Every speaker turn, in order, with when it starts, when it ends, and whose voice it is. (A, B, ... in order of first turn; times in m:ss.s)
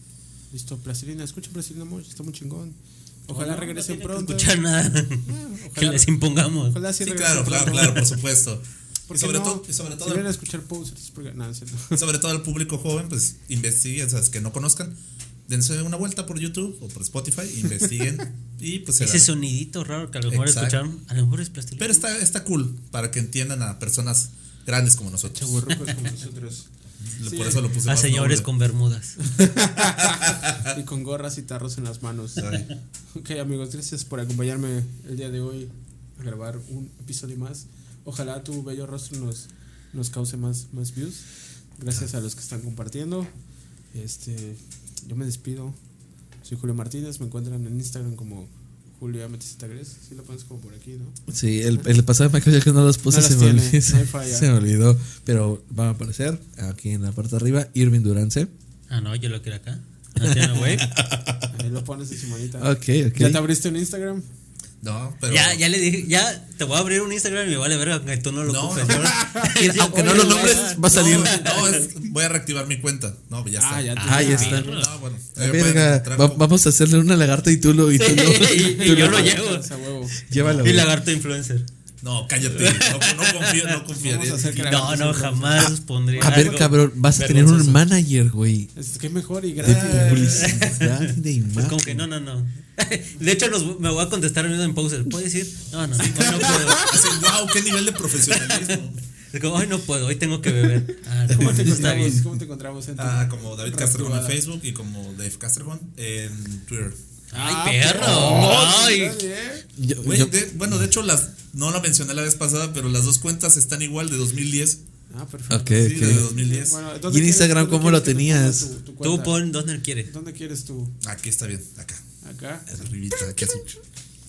0:00.5-0:04.6 A
0:03.3-0:06.8 B
0:05.3-0:08.1 A
0:07.0-0:10.3 C
0:09.1-0:12.0 A
0:11.9-0:15.0 C
0:15.5-0:19.3 C
0:19.0-0:22.1 B
0:20.3-0:20.8 C
0:21.8-0:26.0 C
0:25.3-0:26.7 A
0:27.0-0:28.5 C
0:27.2-0:27.6 A
0:27.8-0:29.4 B
0:29.2-0:41.3 A
0:29.8-0:30.7 C
0:32.4-0:32.7 C
0:41.8-0:43.3 A
0:43.9-0:45.8 A
0:46.4-0:51.2 A
0:51.3-0:58.5 D
0:53.1-0:54.5 A
0:58.9-1:00.9 B
1:00.2-1:01.6 D
1:01.5-1:04.2 A
1:02.6-1:03.4 D
1:04.8-1:05.6 C
1:05.3-1:11.8 B
1:08.4-1:09.2 C
1:08.8-1:11.8 A
1:09.4-1:11.5 D
1:10.8-1:16.4 C
1:13.6-1:14.7 A
1:14.0-1:14.9 B
1:14.0-1:14.8 D
1:15.4-1:19.4 D
1:18.0-1:19.7 B
1:18.4-1:20.8 A
1:20.2-1:20.9 D
1:20.4-1:20.7 C
1:20.6-1:21.7 B
1:22.0-1:25.0 C
1:22.5-1:23.7 B
1:23.9-1:26.6 A
1:24.5-1:27.9 B
1:25.6-1:28.7 D
1:28.7-1:30.5 A
1:29.6-1:32.1 D
1:29.6-1:30.8 C
1:30.2-1:37.0 B
1:36.0-1:39.0 C
1:39.3-1:42.2 B
1:41.3-1:44.4 A
1:41.7-1:42.1 D
1:43.0-1:47.0 C
1:47.3-1:49.2 B
1:47.3-1:49.7 A
1:48.0-1:48.7 D
1:49.8-1:50.3 D
1:50.0-1:54.8 C
1:55.1-1:59.4 A
1:55.5-1:56.3 D
1:55.7-1:56.8 C
1:57.1-1:58.7 D
1:59.0-2:00.1 B
2:00.0-2:00.9 A
2:01.0-2:02.0 C
2:02.2-2:02.9 A
2:02.7-2:03.8 C